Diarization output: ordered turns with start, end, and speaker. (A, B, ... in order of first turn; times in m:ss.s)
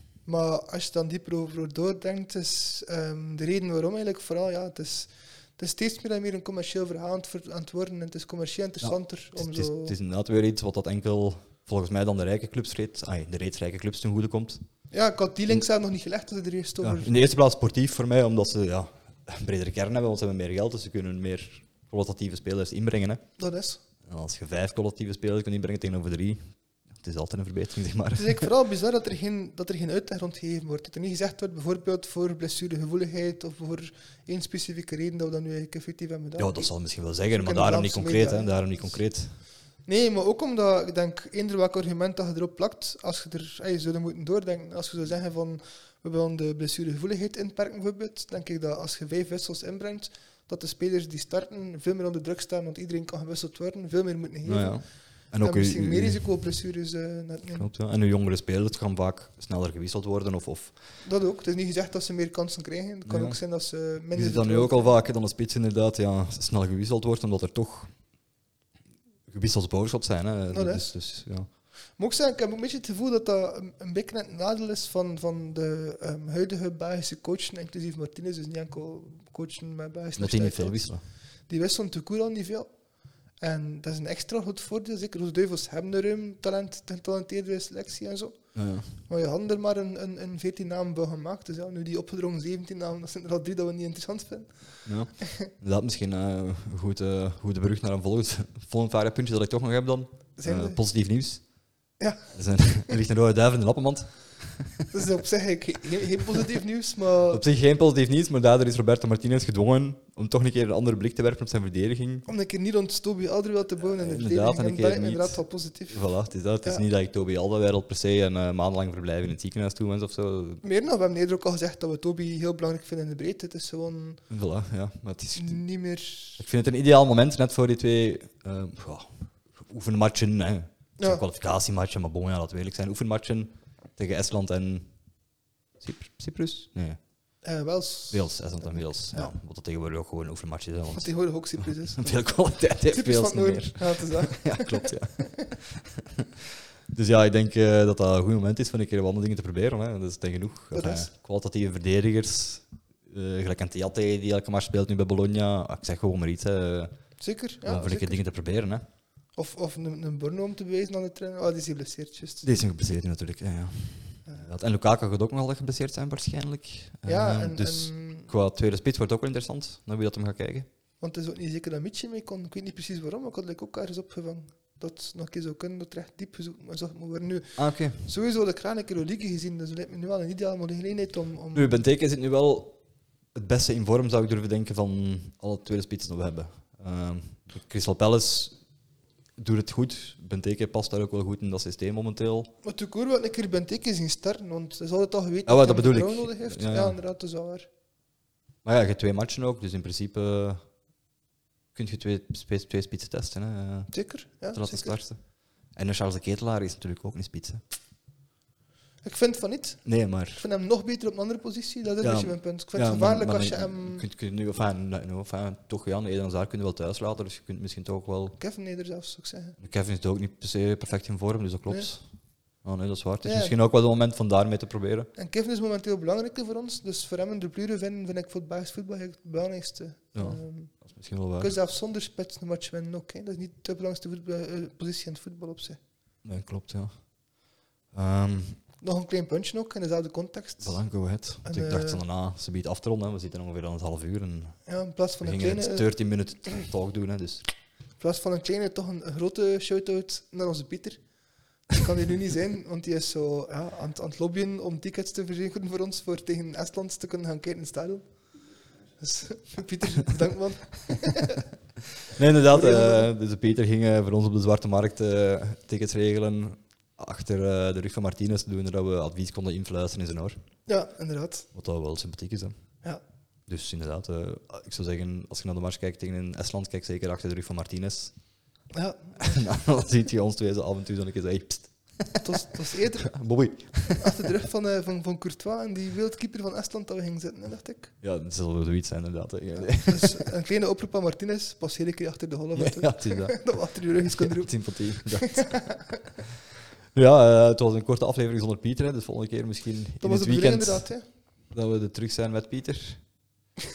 0:00.2-0:09.9 A
0:08.8-0:14.6 B
0:14.9-0:17.1 A
0:16.8-0:23.2 B
0:23.4-0:23.8 A
0:24.1-0:28.5 B
0:28.2-0:36.7 A
0:36.4-0:39.4 B
0:37.3-0:39.0 A
0:39.8-0:57.7 A
0:54.4-0:56.4 B
0:57.5-1:00.8 B
1:01.0-1:05.0 A
1:03.0-1:03.4 B
1:04.1-1:07.9 B
1:09.3-1:11.5 B
1:10.5-1:10.9 A
1:12.0-1:20.9 A
1:20.2-1:21.0 B
1:21.5-1:22.7 A
1:23.4-1:35.4 A
1:28.5-1:29.0 B
1:34.8-1:41.5 B
1:40.4-1:40.8 A
1:42.0-1:42.3 A
1:42.3-1:44.9 B
1:44.9-1:47.4 A
1:47.3-1:52.2 B
1:52.2-1:56.1 A
1:54.0-2:00.6 B
2:00.6-2:04.2 A
2:04.3-2:05.6 B
2:05.3-2:06.4 A
2:06.4-2:15.0 B
2:15.8-2:17.0 B
2:17.4-2:19.3 A
2:18.1-2:26.3 B
2:20.9-2:22.3 A
2:22.9-2:25.4 A
2:26.9-2:37.1 B
2:30.7-2:31.1 A
2:37.2-2:38.2 A
2:37.6-2:38.8 B
2:39.3-2:42.4 A
2:42.4-2:50.7 B
2:47.0-2:48.3 A
2:51.0-3:01.8 A
2:57.6-2:58.1 B
3:01.5-3:02.8 B
3:03.3-3:08.6 B
3:09.4-3:12.5 B
3:12.6-3:17.7 A
3:15.4-3:17.0 B
3:18.6-3:20.7 B
3:21.7-3:27.6 B
3:23.9-3:25.0 A
3:29.0-3:34.0 A
3:29.8-3:30.4 B
3:32.0-3:38.4 B
3:38.4-3:39.6 A
3:39.6-3:45.1 B
3:43.2-3:43.5 A
3:45.1-3:50.7 A
3:50.1-3:51.5 B
3:51.4-3:55.8 A
3:56.2-3:57.2 B
3:57.9-3:58.6 B
3:58.8-4:00.8 A
4:00.6-4:04.6 B
4:01.4-4:02.0 A
4:04.7-4:05.9 A
4:05.2-4:07.5 B
4:08.0-4:11.0 A
4:11.7-4:18.0 A
4:19.0-4:21.4 A
4:22.1-4:30.4 B
4:22.5-4:23.1 A
4:30.7-4:31.5 A
4:31.5-4:32.6 B
4:33.5-4:38.2 B
4:38.7-4:39.2 A
4:39.2-4:44.2 B
4:42.2-4:47.9 A
4:48.0-4:50.2 B
4:49.7-4:56.0 A
4:52.5-4:55.6 B
4:56.9-5:00.9 B
5:00.0-5:01.0 A
5:01.5-5:03.0 B